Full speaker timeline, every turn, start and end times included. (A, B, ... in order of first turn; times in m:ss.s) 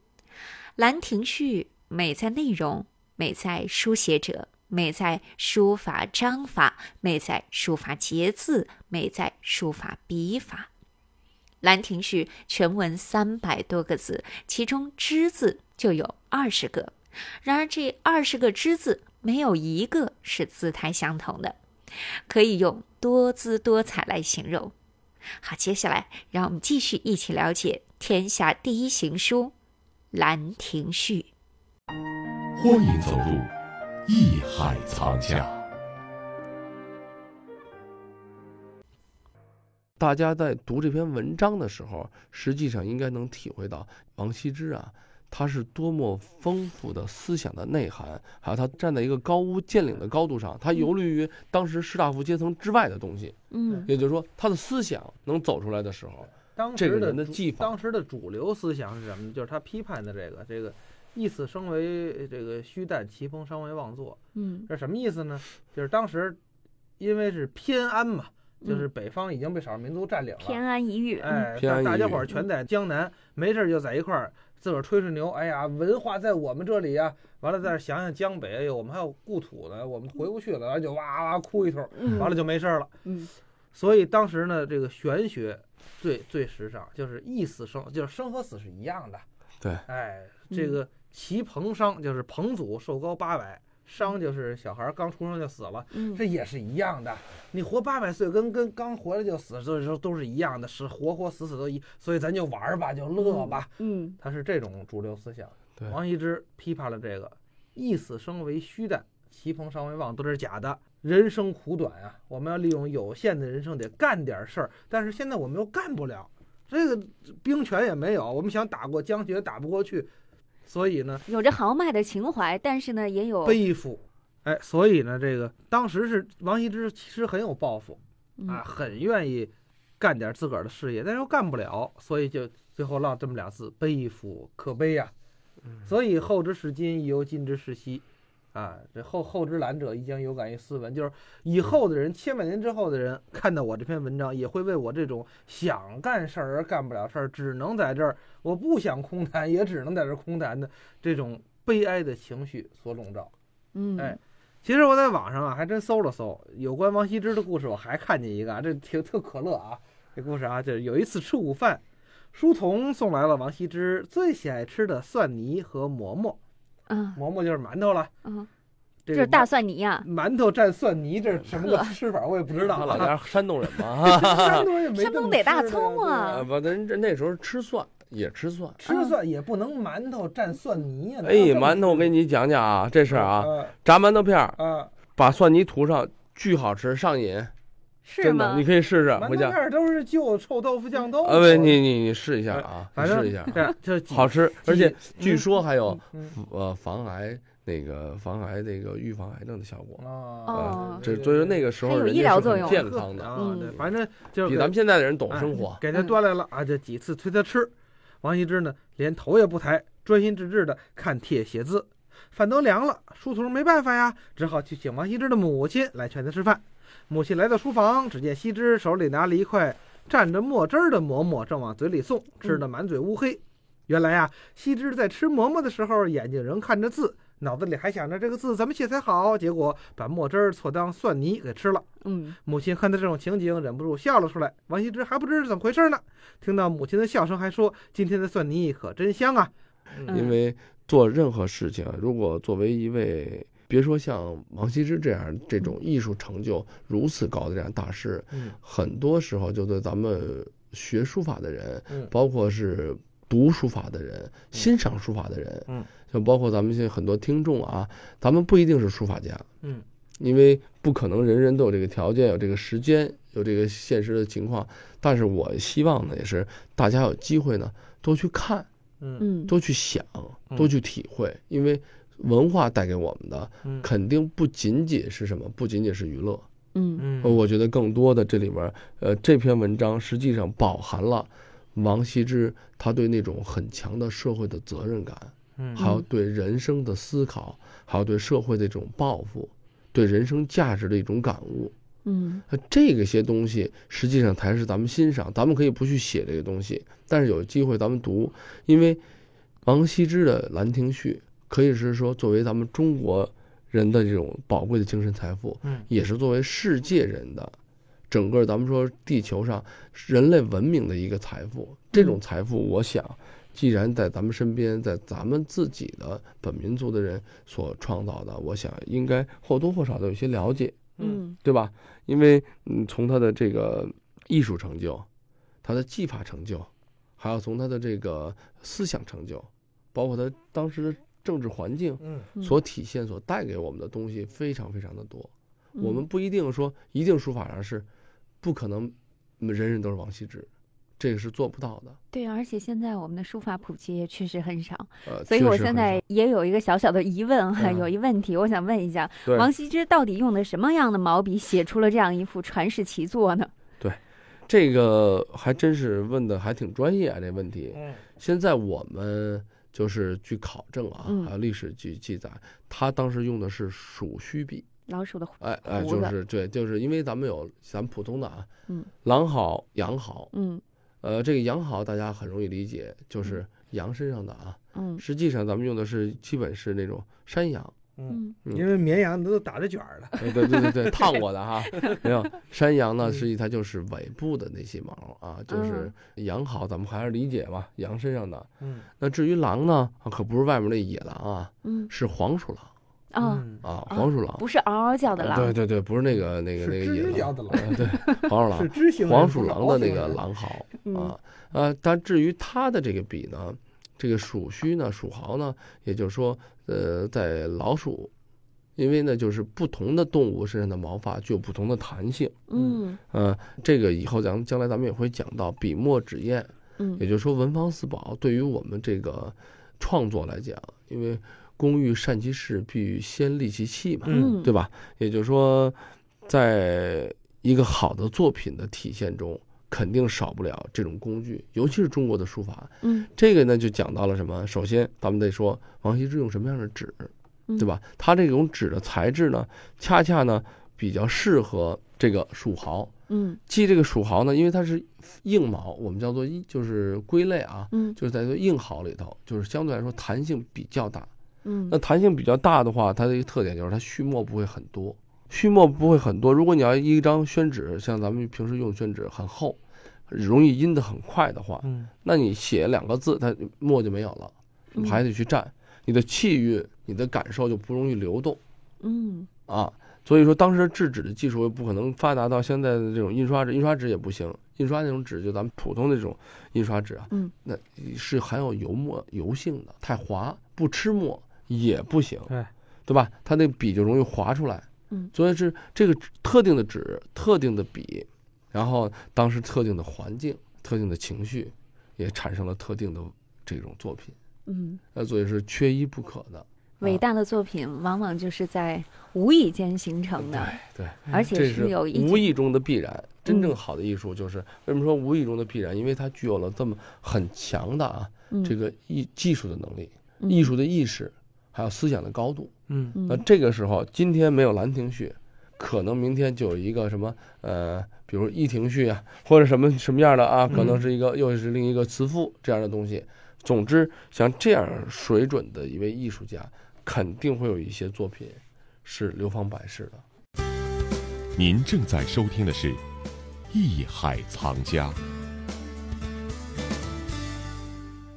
0:00.8-0:10.7 A
0:11.6-0:21.6 A
0:22.3-0:24.7 A
0:25.4-0:29.5 A
0:30.1-0:31.3 A
0:32.6-0:33.5 B
0:34.1-0:35.5 B
0:40.0-0:57.7 C
0:53.5-0:53.8 D
0:56.6-1:06.4 E
1:04.3-1:04.7 D
1:07.0-1:10.6 E
1:10.4-1:11.5 D
1:11.2-1:23.0 E
1:11.6-1:12.2 C
1:22.0-1:22.4 D
1:23.0-1:23.3 D
1:23.7-1:29.2 E
1:29.9-2:00.1 E
1:30.5-1:30.8 D
1:35.9-1:36.2 D
1:43.2-1:44.2 D
2:00.7-2:01.2 E
2:01.2-2:03.6 D
2:03.4-2:15.1 E
2:15.8-2:33.3 E
2:33.7-2:34.2 D
2:34.0-2:41.8 E
2:42.3-2:46.4 E
2:46.9-2:47.2 D
2:47.1-2:48.1 E
2:48.2-2:48.5 D
2:49.1-2:49.5 E
2:49.1-2:50.0 D
2:50.0-2:53.1 E
2:51.5-2:51.9 D
2:52.6-2:54.7 C
2:54.0-2:56.3 E
2:54.9-2:56.4 D
2:56.2-2:58.8 C
2:58.8-3:02.1 E
2:58.8-2:59.2 D
3:01.2-3:04.6 C
3:03.1-3:03.7 E
3:04.6-3:04.9 E
3:05.2-3:07.5 C
3:08.0-3:08.6 D
3:08.2-3:09.6 C
3:09.2-3:11.8 E
3:11.2-3:13.6 C
3:12.5-3:15.4 E
3:14.1-3:20.0 C
3:20.0-3:21.7 E
3:20.5-3:21.1 D
3:20.5-3:25.8 C
3:21.8-3:23.8 D
3:22.5-3:24.7 E
3:25.3-3:51.9 E
3:52.0-3:52.4 D
3:52.4-4:00.1 E
4:00.1-4:00.4 D
4:00.1-4:19.4 C
4:08.3-4:08.6 E
4:20.2-4:28.7 C
4:29.0-4:29.2 E
4:29.2-4:29.5 D
4:29.4-4:36.4 C
4:36.7-4:37.0 D
4:37.0-4:37.4 E
4:37.2-4:51.7 C
4:45.6-4:45.8 E
4:45.8-4:46.0 D
4:52.0-4:52.4 D
4:52.5-4:59.0 C
4:59.6-5:07.6 C
5:08.1-5:25.0 C
5:21.0-5:21.2 E
5:21.0-5:21.4 D
5:25.6-5:37.9 C
5:32.0-5:32.3 E
5:38.4-5:40.5 C
5:41.0-5:42.0 C
5:42.1-5:53.5 D
5:45.0-5:46.0 C
5:47.6-5:47.9 C
5:53.8-6:04.6 C
5:57.7-5:58.0 E
6:01.0-6:01.3 D
6:04.9-6:06.1 D
6:05.4-6:08.5 C
6:09.0-6:10.3 C
6:10.3-6:10.6 D
6:11.0-6:17.8 C
6:14.7-6:15.0 D
6:18.0-6:21.0 E
6:18.1-6:18.3 D
6:20.2-6:32.7 C
6:21.7-6:22.0 E
6:25.5-6:25.9 D
6:28.6-6:28.9 E
6:31.6-6:31.9 D
6:33.1-6:35.5 D
6:33.2-6:33.6 E
6:33.6-6:34.4 C
6:35.1-6:48.1 C
6:36.2-6:37.9 E
6:37.9-6:38.3 D
6:38.5-6:40.2 E
6:40.8-6:41.1 D
6:48.8-6:52.4 C
6:52.5-6:53.0 D
6:53.1-7:22.9 C
7:04.1-7:04.4 E
7:04.1-7:04.5 D
7:12.8-7:13.1 D
7:23.1-7:23.4 D
7:23.5-7:31.1 C
7:31.4-7:31.8 D
7:31.7-7:48.4 C
7:41.6-7:41.9 E
7:48.8-7:49.3 D
7:49.5-8:02.3 C
8:02.9-8:14.1 C
8:14.5-8:14.8 D
8:14.9-8:17.0 C
8:16.8-8:20.6 D
8:20.1-8:32.5 C
8:21.1-8:22.3 D
8:30.2-8:30.5 D
8:32.7-8:33.0 E
8:32.9-8:33.2 D
8:33.0-8:50.0 C
8:40.5-8:40.8 E
8:51.4-8:52.8 B
8:53.5-8:55.0 B